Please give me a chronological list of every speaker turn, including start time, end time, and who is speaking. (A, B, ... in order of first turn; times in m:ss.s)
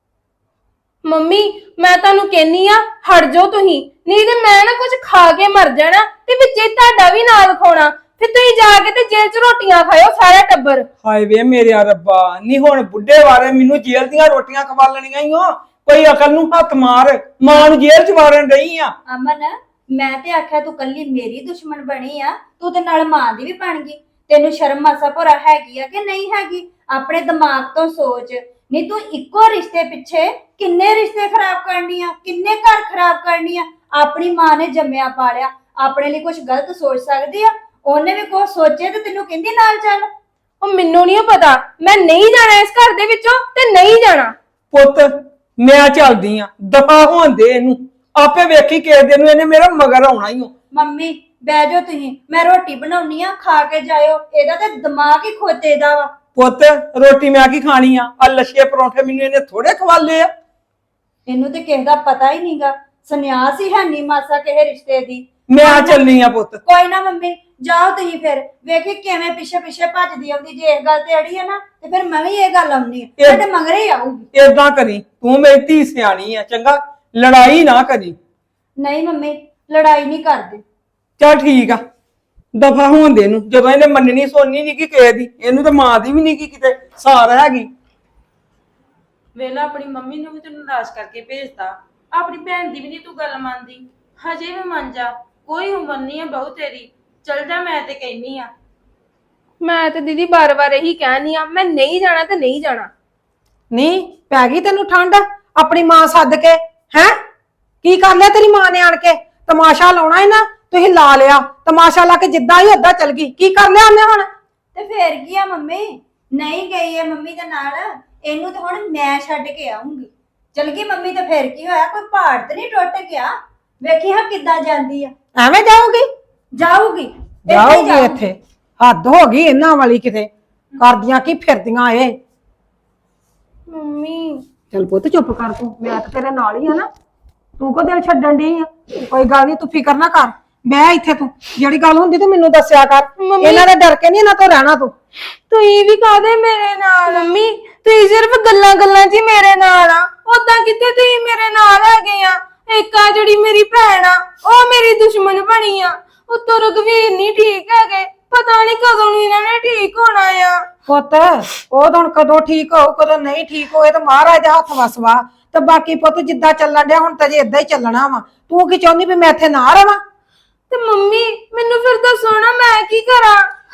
0:01.0-0:10.8 A
0:11.0-0:18.9 B
0:19.1-0:40.1 C
0:40.6-0:44.3 A
0:44.7-0:45.1 B
0:45.6-0:50.5 B
0:50.7-0:56.1 C
0:56.3-1:00.3 B
1:01.3-1:06.0 C
1:05.5-1:06.6 B
1:06.6-1:14.2 C
1:13.2-1:13.4 B
1:14.3-1:18.2 B
1:18.8-1:20.6 C
1:21.2-1:21.8 B
1:22.5-1:27.7 B
1:29.3-1:38.5 D
1:39.6-1:42.9 A
1:43.7-1:47.1 E
1:47.8-1:54.3 E
1:54.7-2:05.1 C
2:05.4-2:06.0 E
2:06.5-2:08.2 C
2:07.5-2:12.1 E
2:13.7-2:14.4 A
2:14.7-2:16.9 E
2:17.6-2:24.9 E
2:23.2-2:23.7 A
2:25.5-2:27.3 D
2:27.1-2:40.6 A
2:40.9-2:50.0 E
2:50.7-2:53.5 A